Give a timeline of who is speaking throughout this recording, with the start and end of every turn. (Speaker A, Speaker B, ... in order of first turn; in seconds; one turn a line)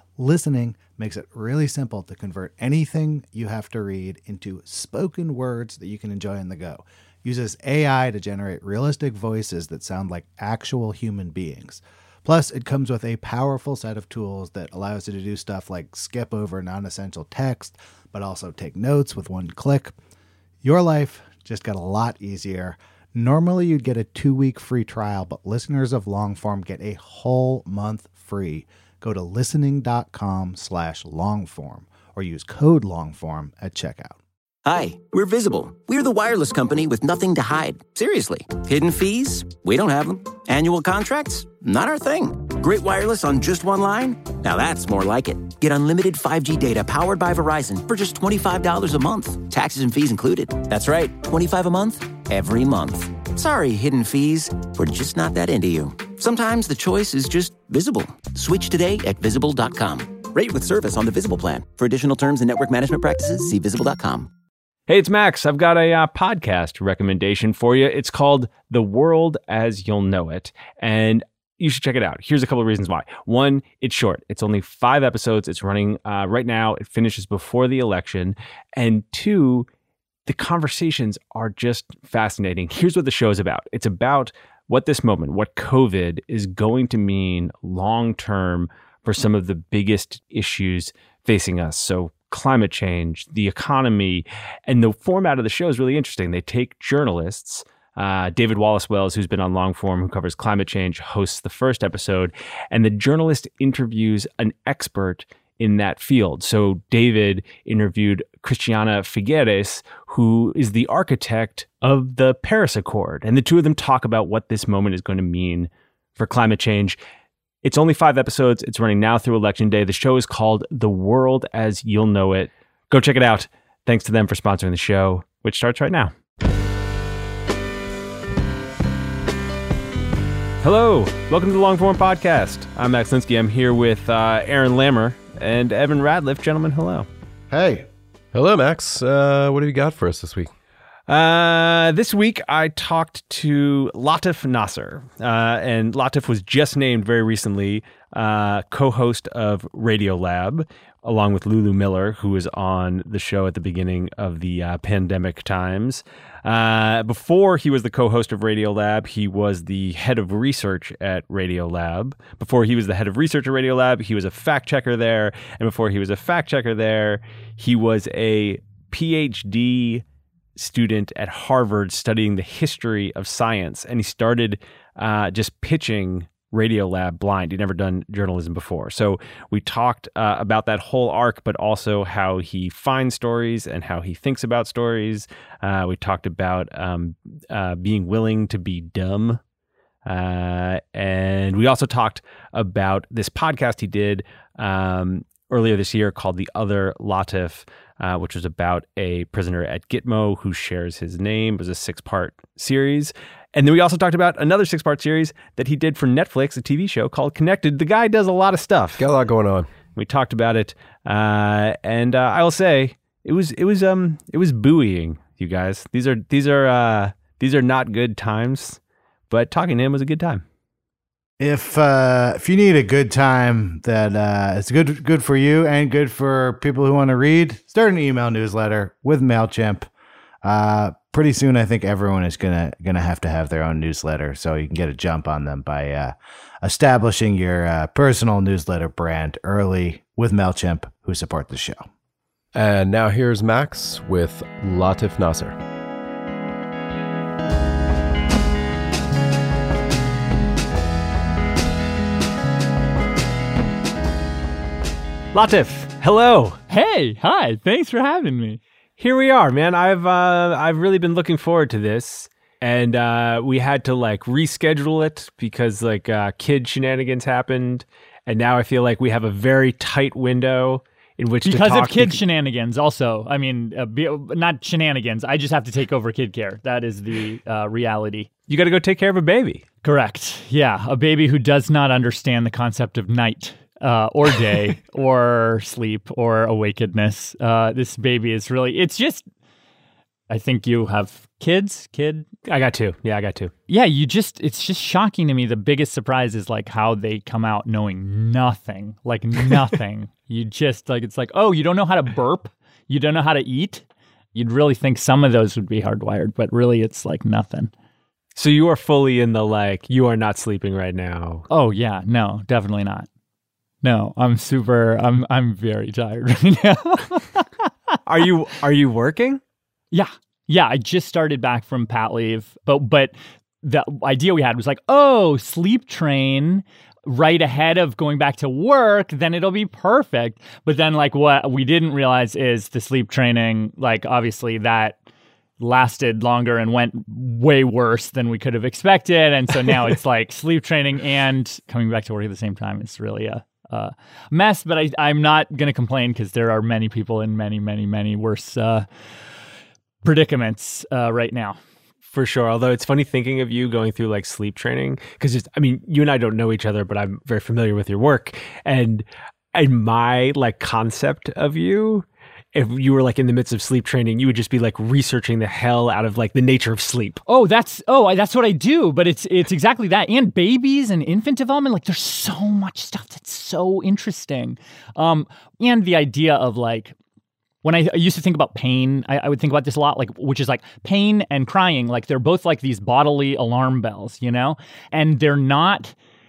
Speaker A: 0.2-19.9
Speaker A: 20.6-34.2
Speaker B: 34.6-64.3
Speaker C: 64.9-79.7
Speaker C: 80.2-117.0
Speaker C: 117.6-126.1
Speaker C: 130.6-137.1
Speaker A: 137.5-137.8
Speaker D: 138.3-140.5
Speaker C: 141.1-170.0
Speaker C: 170.6-189.4
Speaker C: 190.0-209.0
Speaker D: 209.0-209.7
Speaker C: 209.9-220.4
Speaker A: 221.4-229.9
Speaker A: 230.4-241.8
Speaker D: 242.5-245.6
Speaker C: 255.3-256.6
Speaker E: 256.7-258.6
Speaker C: 259.0-272.2
Speaker E: 271.4-278.3
Speaker C: 278.5-279.6
Speaker E: 279.8-289.2
Speaker E: 290.3-292.3
Speaker C: 292.4-293.5
Speaker E: 293.7-307.7
Speaker C: 308.3-311.5
Speaker E: 311.5-313.1
Speaker E: 313.8-317.5
Speaker C: 318.1-319.4
Speaker E: 319.9-335.0
Speaker E: 335.6-348.9
Speaker E: 350.0-351.6
Speaker C: 352.1-367.2
Speaker E: 367.3-376.9
Speaker E: 377.6-385.9